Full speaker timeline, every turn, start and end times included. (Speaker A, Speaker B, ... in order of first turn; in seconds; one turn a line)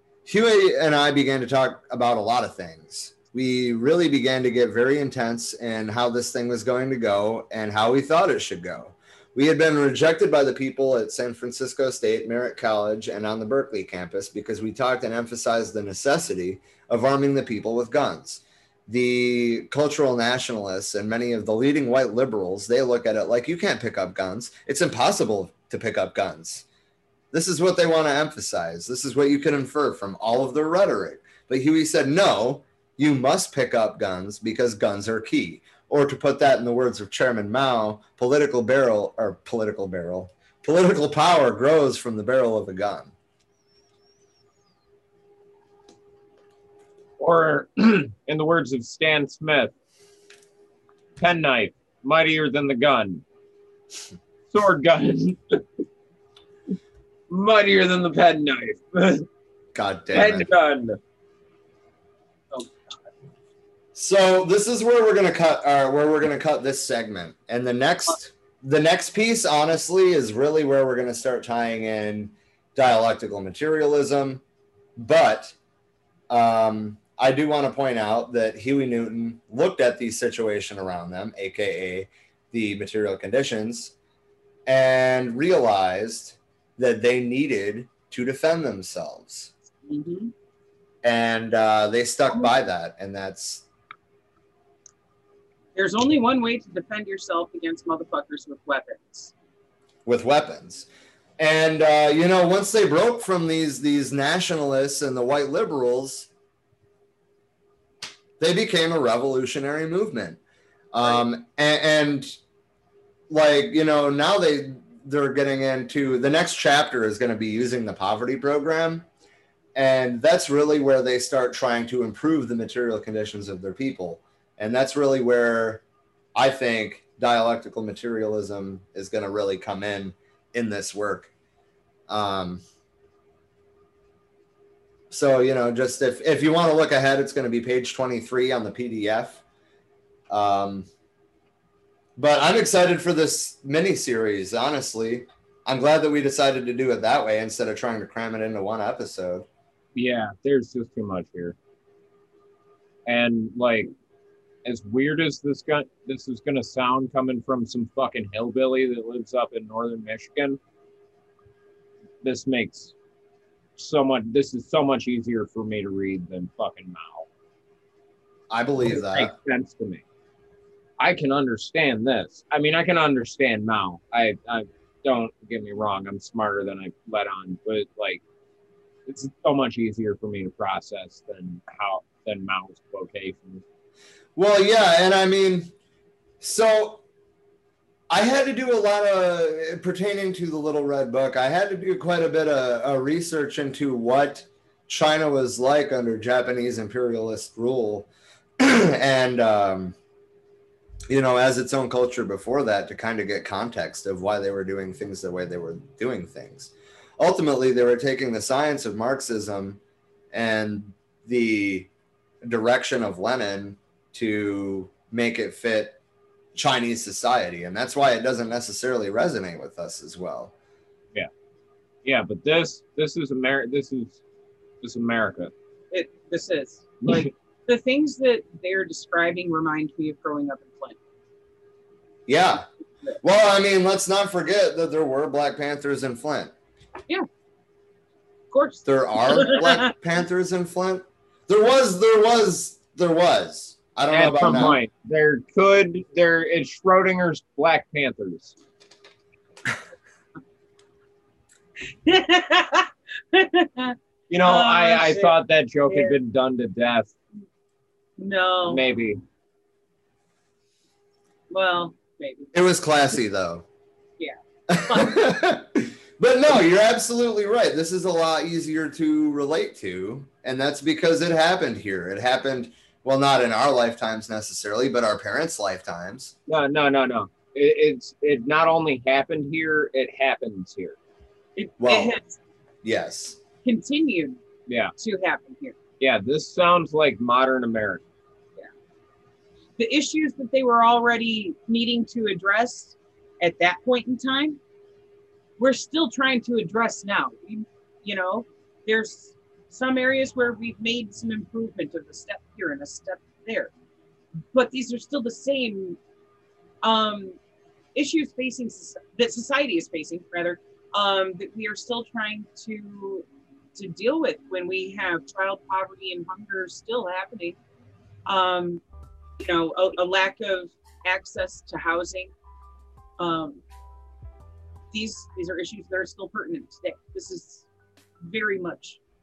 Speaker A: 0.2-26.6
Speaker A: 27.3-43.1
Speaker B: 47.2-49.7
Speaker B: 51.2-53.2
Speaker B: 54.5-55.6
Speaker B: 57.3-59.3
Speaker A: 59.7-60.5
Speaker B: 60.1-61.0
Speaker C: 62.5-62.8
Speaker A: 64.0-74.4
Speaker A: 75.0-75.6
Speaker A: 76.3-83.9
Speaker A: 84.7-89.5
Speaker C: 89.9-90.3
Speaker A: 91.0-93.7
Speaker C: 95.8-99.3
Speaker A: 100.1-100.9
Speaker A: 101.4-106.3
Speaker A: 108.4-110.4
Speaker A: 110.9-112.4
Speaker A: 113.3-119.1
Speaker A: 119.8-125.8
Speaker A: 126.4-131.3
Speaker A: 132.1-132.6
Speaker A: 135.1-139.4
Speaker A: 140.3-140.9
Speaker A: 142.2-149.5
Speaker B: 149.9-151.6
Speaker B: 153.1-153.9
Speaker B: 154.7-160.6
Speaker B: 162.2-162.9
Speaker B: 163.8-167.3
Speaker A: 168.5-169.3
Speaker B: 168.8-170.0
Speaker B: 171.0-178.2
Speaker B: 179.1-183.6
Speaker A: 184.4-185.7
Speaker A: 186.4-187.0
Speaker A: 188.1-199.9
Speaker A: 201.1-209.8
Speaker A: 210.3-211.9
Speaker A: 212.4-216.0
Speaker A: 216.6-220.5
Speaker B: 222.1-224.2
Speaker B: 224.8-225.5
Speaker C: 225.9-231.0
Speaker A: 232.3-232.7
Speaker A: 233.2-236.5
Speaker C: 238.5-239.9
Speaker A: 238.8-244.8
Speaker B: 244.1-248.6
Speaker C: 252.1-255.3
Speaker B: 254.3-257.1
Speaker C: 255.9-256.2
Speaker C: 258.2-258.8
Speaker B: 258.7-259.2
Speaker C: 261.5-262.5
Speaker A: 262.5-263.6
Speaker C: 264.2-265.2
Speaker A: 264.7-276.4
Speaker B: 276.5-281.0
Speaker C: 281.6-282.4
Speaker A: 281.8-282.2
Speaker A: 282.8-283.4
Speaker C: 283.6-284.4
Speaker B: 284.7-284.9
Speaker C: 285.0-285.8
Speaker B: 286.0-288.0
Speaker C: 289.8-294.6
Speaker C: 295.6-303.7
Speaker C: 304.5-306.0
Speaker C: 306.8-307.4
Speaker C: 307.9-317.6
Speaker C: 318.3-318.8
Speaker C: 319.4-322.3
Speaker C: 323.2-323.6
Speaker C: 324.9-327.7
Speaker C: 328.2-329.0